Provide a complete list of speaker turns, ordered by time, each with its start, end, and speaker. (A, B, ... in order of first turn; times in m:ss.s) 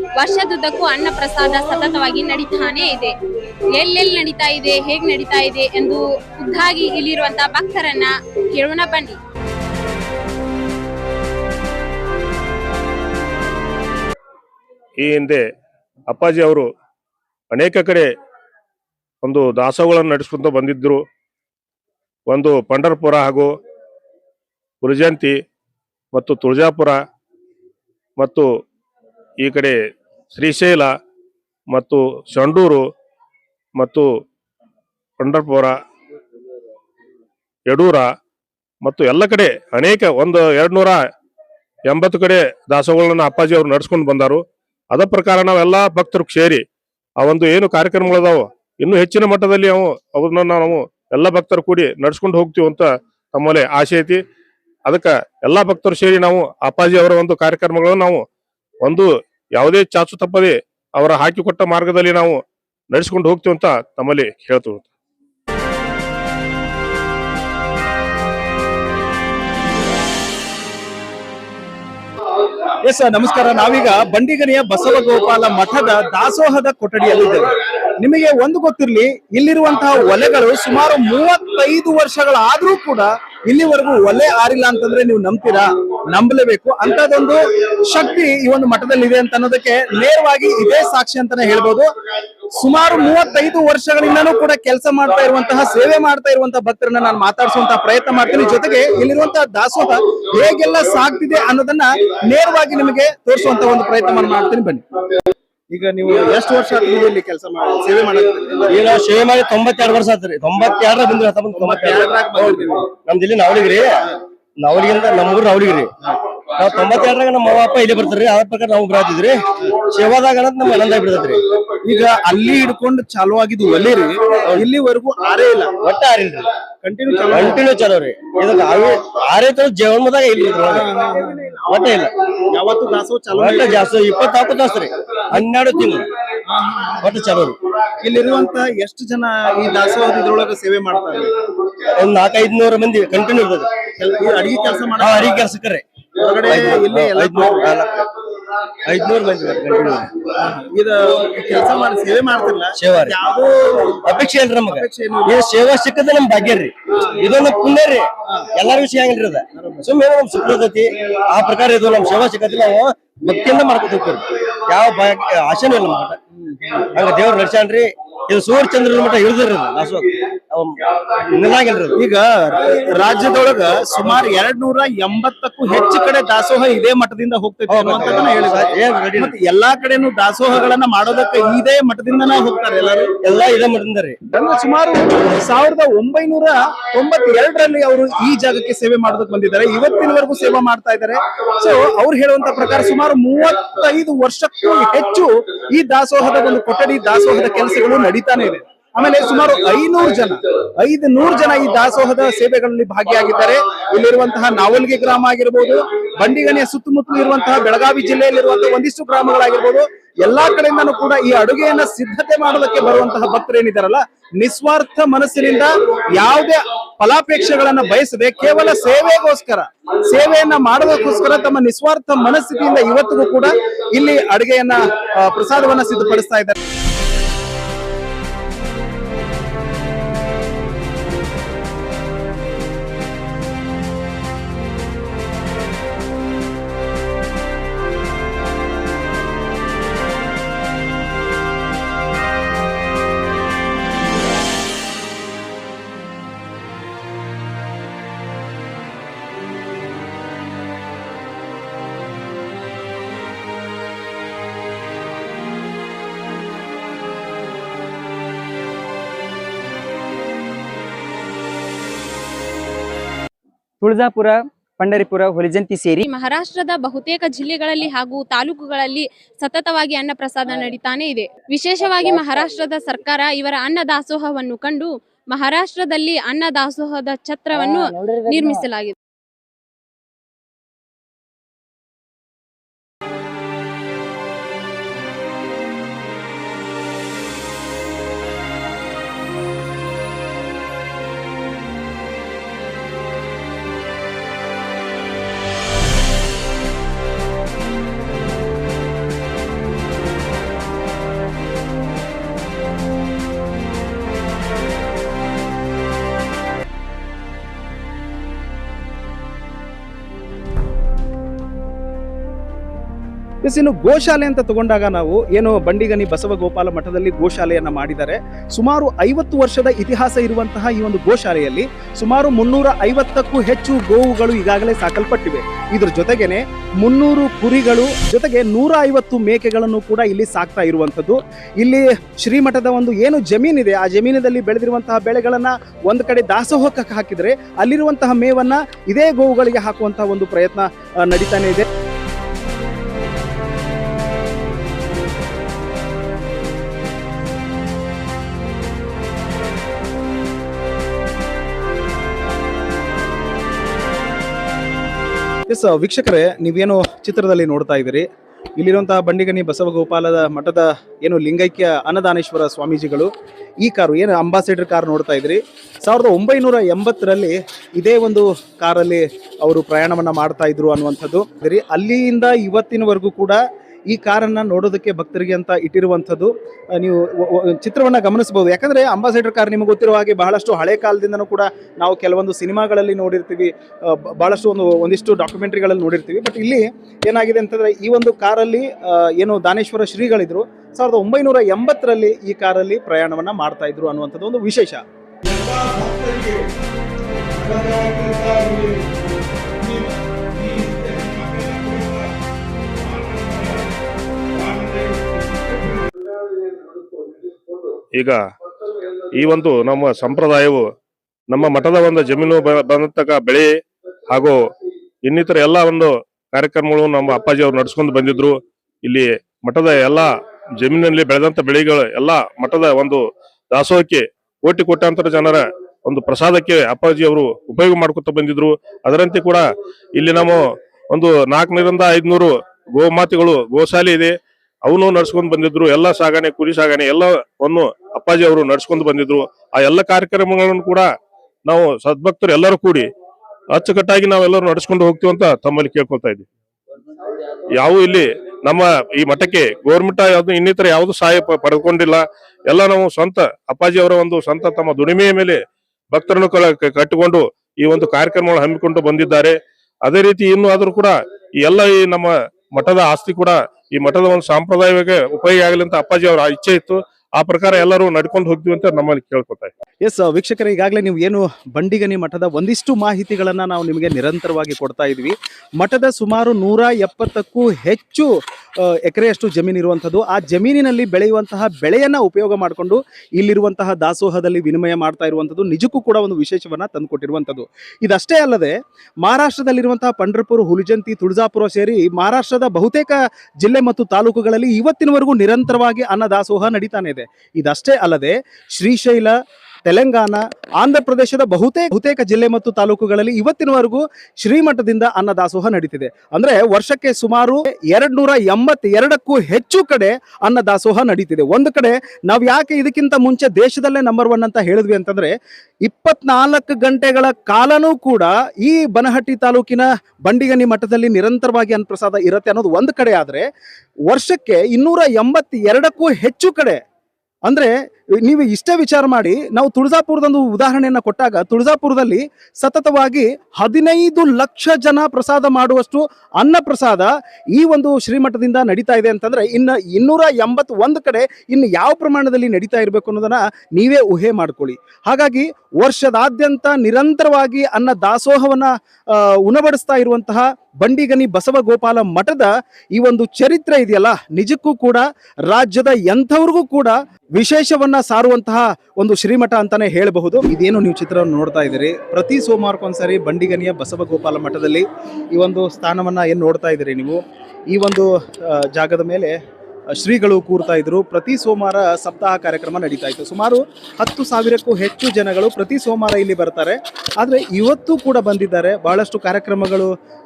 0:00.1-0:03.1 A
0:03.7-0:09.2 A
0:15.0-0:15.4 B
0:16.1-0:16.6 B
0:17.5-0:18.1 B
0:19.2-0:21.0 B
0:22.3-0:23.5 B
0:24.8-0:25.3 B
0:26.1-0:27.0 B
0:28.2-0:28.4 B
0:29.4-0:29.7 B
0:30.3-0:30.9 B
0:31.7-0:32.8 B
0:33.8-0:34.1 B
0:35.2-0:35.7 B
0:37.7-0:38.1 B
0:38.8-0:41.0 B
0:41.9-0:44.4 B
0:44.9-0:46.6 B
0:47.2-0:54.2 B
0:54.9-0:58.2 B
0:58.8-1:02.4 B
1:02.9-1:04.9 B
1:12.8-1:31.9 C
1:32.6-1:44.8 C
1:45.7-1:48.7 C
1:48.6-1:55.9 D
1:51.5-1:52.9 C
1:56.4-2:01.4 D
2:01.8-2:05.7 C
2:05.8-2:06.5 D
2:06.8-2:07.6 C
2:07.2-2:10.9 D
2:10.6-2:11.7 C
2:11.6-2:12.1 D
2:12.5-2:13.8 C
2:13.3-2:16.1 D
2:16.9-2:17.6 D
2:18.0-2:21.3 C
2:21.9-2:23.8 D
2:24.0-2:25.4 C
2:25.0-2:25.8 D
2:26.2-2:27.7 C
2:26.4-2:28.1 D
2:28.8-2:30.1 D
2:30.3-2:33.9 C
2:32.7-2:33.2 D
2:33.9-2:46.2 D
2:34.7-2:35.4 C
2:39.6-2:39.9 C
2:46.4-2:46.8 C
2:46.9-2:52.0 D
2:52.0-3:03.1 C
2:57.7-2:59.4 D
3:03.2-3:04.2 D
3:04.3-3:46.6 C
4:23.8-4:26.0 E
4:26.0-4:38.9 A
5:13.4-5:41.6 C
5:55.5-5:58.0 C
5:58.6-6:03.1 C
6:03.6-6:13.4 C
6:13.9-6:34.8 C
6:35.2-6:36.5 B
6:37.3-6:38.9 B
6:39.6-6:42.1 B
6:42.8-6:43.6 B
6:44.3-6:45.9 B
6:49.1-6:50.6 B
6:51.3-6:53.5 B
6:55.0-7:00.1 B
7:00.6-7:09.4 B
7:10.0-7:10.4 B
7:10.9-7:14.1 B
7:14.6-7:20.8 B
7:21.4-7:22.8 B
7:23.5-7:26.2 B
7:27.6-7:35.4 B
7:35.9-7:49.5 B
7:49.8-7:58.1 C
7:58.8-8:35.1 C
8:35.6-8:43.2 C
8:43.9-8:46.6 C
8:47.2-8:47.5 C
8:48.0-9:29.2 C
9:29.7-9:39.7 C